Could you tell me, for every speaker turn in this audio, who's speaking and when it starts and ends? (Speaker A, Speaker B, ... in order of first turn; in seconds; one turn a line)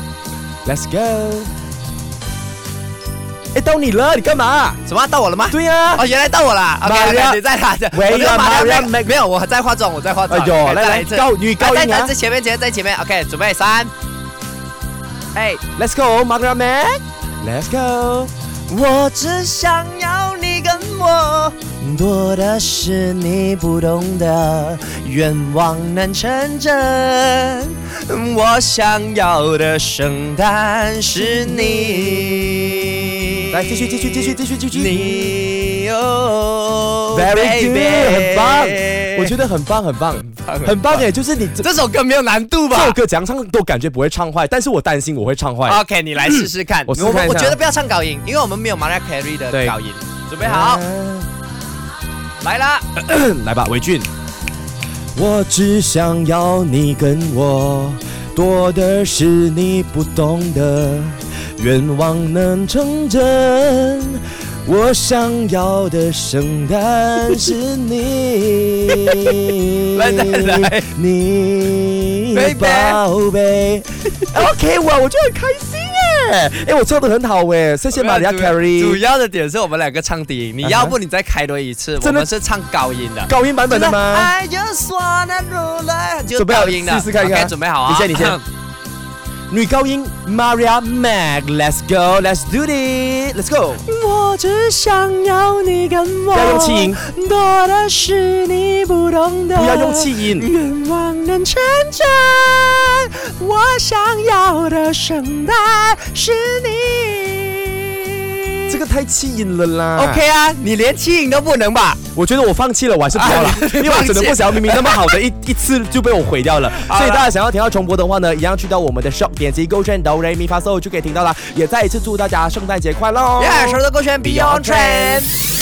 Speaker A: 0.6-1.5
Speaker A: 3.5-4.8
Speaker B: 4.8-13.9
Speaker A: 5.5-6.0
Speaker A: 6.8-9.1
Speaker A: 10.3-12.1
Speaker B: 15.3-15.6
Speaker A: 15.7-18.3
Speaker B: 18.7-39.4
Speaker A: 31.2-32.2
Speaker A: 33.5-35.4
Speaker A: 37.1-41.7
Speaker B: 40.2-43.0
Speaker A: 42.7-47.6
Speaker B: 45.6-50.8
Speaker A: 49.5-49.8
Speaker A: 50.4-51.3
Speaker B: 52.4-52.8
Speaker A: 53.0-54.1
Speaker A: 55.1-79.0
Speaker B: 68.9-69.4
Speaker B: 69.9-70.9
Speaker B: 72.3-73.0
Speaker B: 77.9-88.4
Speaker A: 80.6-81.0
Speaker A: 82.0-82.3
Speaker A: 83.2-84.3
Speaker A: 86.3-88.4
Speaker A: 89.5-93.8
Speaker B: 93.9-108.8
Speaker A: 96.3-97.0
Speaker A: 99.5-100.5
Speaker A: 108.7-110.2
Speaker B: 110.0-112.0
Speaker A: 112.1-125.3
Speaker B: 113.1-115.2
Speaker B: 116.7-117.3
Speaker B: 123.4-125.3